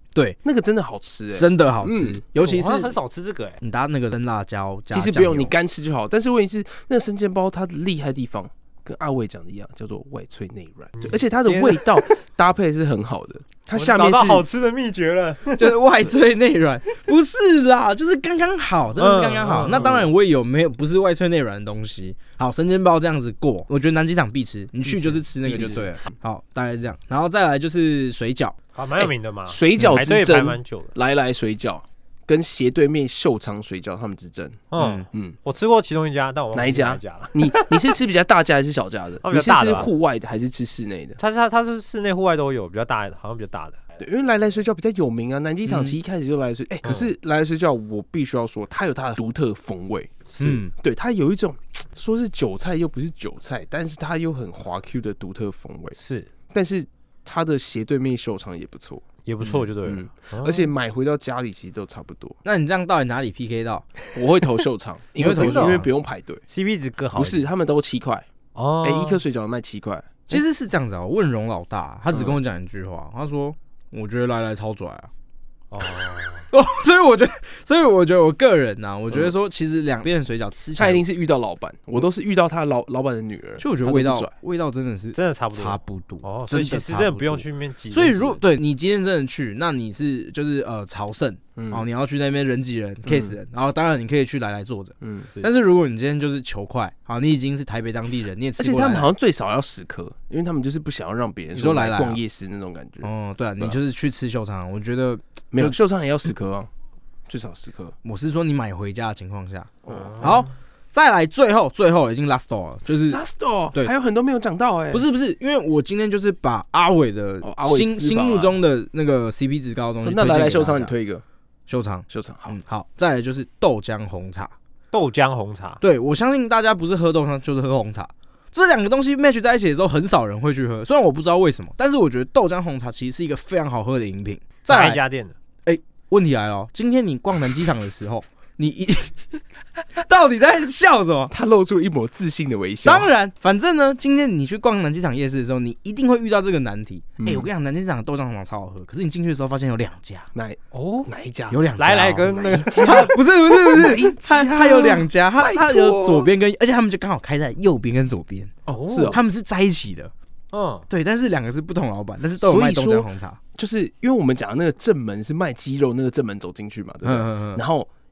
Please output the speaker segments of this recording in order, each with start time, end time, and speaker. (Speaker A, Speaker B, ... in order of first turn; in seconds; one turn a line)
Speaker A: 0.4-2.2
Speaker B: 1.3-3.0
Speaker C: 2.4-3.6
Speaker B: 3.6-5.5
Speaker A: 4.9-14.5
Speaker C: 11.0-12.2
Speaker C: 13.7-15.8
Speaker B: 15.6-28.6
Speaker C: 19.0-20.0
Speaker A: 19.6-20.1
Speaker C: 24.9-25.8
Speaker A: 25.4-25.9
Speaker C: 28.8-30.9
Speaker A: 29.0-35.4
Speaker C: 34.7-37.9
Speaker B: 34.8-35.1
Speaker A: 36.5-41.2
Speaker C: 39.2-39.9
Speaker C: 41.2-43.8
Speaker A: 44.0-56.0
Speaker B: 45.7-46.0
Speaker C: 46.8-47.1
Speaker B: 50.4-50.7
Speaker C: 56.0-56.3
Speaker A: 56.5-59.0
Speaker C: 59.2-60.7
Speaker A: 59.8-62.4
Speaker B: 62.5-63.9
Speaker A: 64.1-66.4
Speaker B: 65.2-65.9
Speaker C: 65.2-65.9
Speaker C: 66.5-67.5
Speaker A: 67.1-68.3
Speaker C: 68.5-69.2
Speaker A: 68.8-70.4
Speaker B: 70.3-75.1
Speaker A: 72.1-72.4
Speaker C: 75.7-76.5
Speaker B: 76.5-81.0
Speaker A: 80.8-84.3
Speaker B: 83.6-99.1
Speaker C: 85.2-88.4
Speaker A: 91.6-91.9
Speaker A: 93.1-93.4
Speaker A: 95.0-95.3
Speaker A: 98.6-103.8
Speaker B: 101.5-102.2
Speaker B: 103.0-105.8
Speaker A: 105.5-106.7
Speaker A: 107.3-108.0
Speaker B: 108.0-113.2
Speaker A: 109.8-110.5
Speaker C: 109.9-110.4
Speaker A: 113.1-115.0
Speaker B: 114.9-120.9
Speaker A: 117.4-118.6
Speaker A: 120.0-121.2
Speaker B: 121.7-124.5
Speaker A: 122.1-122.6
Speaker C: 124.9-125.8
Speaker B: 125.8-135.0
Speaker C: 134.7-135.3
Speaker B: 135.7-139.2
Speaker B: 140.0-141.3
Speaker A: 141.3-143.1
Speaker B: 142.8-150.3
Speaker A: 147.2-147.5
Speaker A: 150.3-151.6
Speaker C: 150.7-151.1
Speaker B: 151.5-158.5
Speaker C: 151.8-153.2
Speaker A: 152.2-156.3
Speaker A: 158.7-159.2
Speaker C: 158.7-159.2
Speaker B: 159.1-160.1
Speaker C: 160.5-160.9
Speaker B: 160.9-163.4
Speaker A: 162.4-167.9
Speaker B: 167.0-167.6